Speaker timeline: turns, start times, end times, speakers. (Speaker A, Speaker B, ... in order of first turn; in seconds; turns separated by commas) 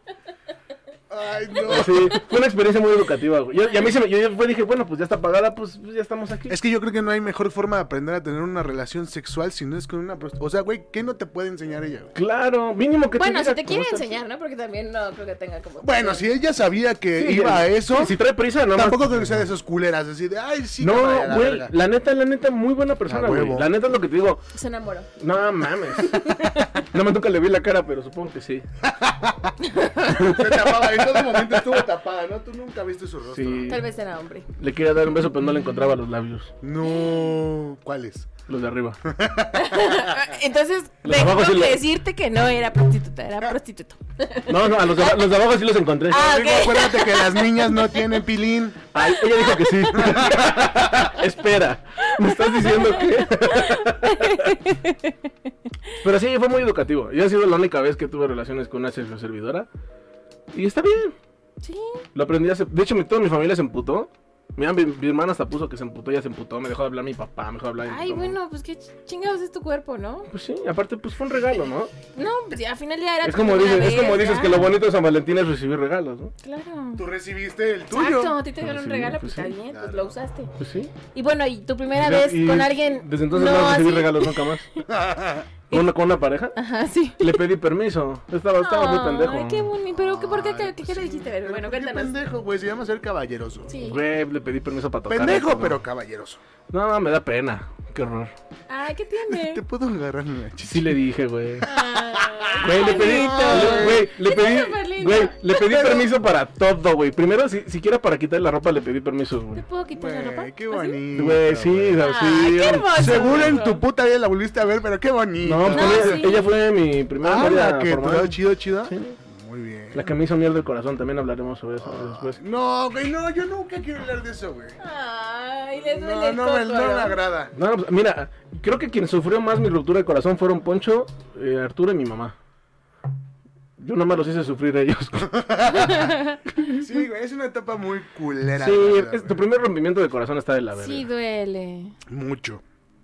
Speaker A: 1.1-2.2, Speaker B: 1.6-6.5, Speaker A: 6.5-12.1, Speaker B: 12.2-14.2, Speaker C: 13.2-16.3, Speaker A: 15.8-18.2, Speaker B: 17.2-19.4, Speaker A: 18.7-21.7, Speaker B: 20.8-24.4, Speaker A: 23.1-23.7, Speaker C: 24.5-25.1, Speaker B: 25.2-28.6, Speaker C: 26.2-26.8, Speaker A: 28.8-29.6, Speaker C: 29.6-30.1, Speaker A: 30.1-33.8, Speaker B: 30.1-30.5, Speaker B: 33.3-33.8, Speaker C: 33.7-34.5, Speaker B: 34.6-36.5, Speaker A: 36.6-38.3, Speaker B: 38.5-39.0, Speaker A: 39.0-40.2, Speaker C: 39.5-45.2, Speaker B: 41.0-41.8, Speaker B: 44.5-46.2, Speaker C: 46.1-48.1, Speaker A: 46.1-48.8, Speaker B: 48.9-54.6, Speaker C: 49.1-50.3, Speaker A: 49.9-50.9, Speaker C: 52.0-56.0, Speaker B: 56.0-59.7, Speaker B: 60.5-61.1, Speaker C: 61.6-62.0, Speaker B: 62.1-68.4, Speaker C: 67.9-70.3, Speaker B: 70.3-71.9, Speaker C: 72.1-74.7, Speaker B: 73.2-76.3, Speaker C: 76.4-77.0, Speaker A: 77.0-78.4, Speaker C: 77.9-80.5, Speaker B: 78.6-79.5, Speaker A: 79.7-80.2, Speaker B: 80.6-80.9, Speaker C: 81.1-84.9, Speaker B: 82.0-84.7, Speaker A: 84.9-85.5, Speaker B: 85.7-86.6, Speaker C: 86.6-87.4, Speaker B: 87.2-89.7, Speaker C: 88.6-92.1, Speaker A: 89.9-93.7, Speaker C: 93.7-94.0, Speaker B: 93.8-95.8, Speaker A: 95.1-96.4, Speaker B: 96.7-98.3, Speaker C: 98.7-99.6, Speaker A: 99.3-101.0, Speaker B: 100.7-101.7, Speaker C: 101.6-106.1, Speaker A: 101.6-104.1, Speaker B: 102.6-109.6, Speaker C: 109.5-111.0, Speaker A: 109.9-112.0, Speaker B: 111.1-113.6, Speaker C: 112.0-113.8, Speaker A: 112.9-116.4, Speaker B: 115.4-119.2, Speaker C: 115.7-116.4, Speaker A: 117.2-120.2, Speaker B: 119.9-122.4, Speaker A: 121.8-124.8, Speaker C: 124.8-127.2, Speaker A: 125.8-127.5, Speaker B: 127.5-132.3, Speaker B: 133.8-135.6, Speaker A: 135.3-136.1, Speaker C: 135.7-136.4, Speaker A: 136.7-139.4, Speaker B: 138.6-141.1, Speaker C: 140.7-142.0, Speaker A: 142.1-142.6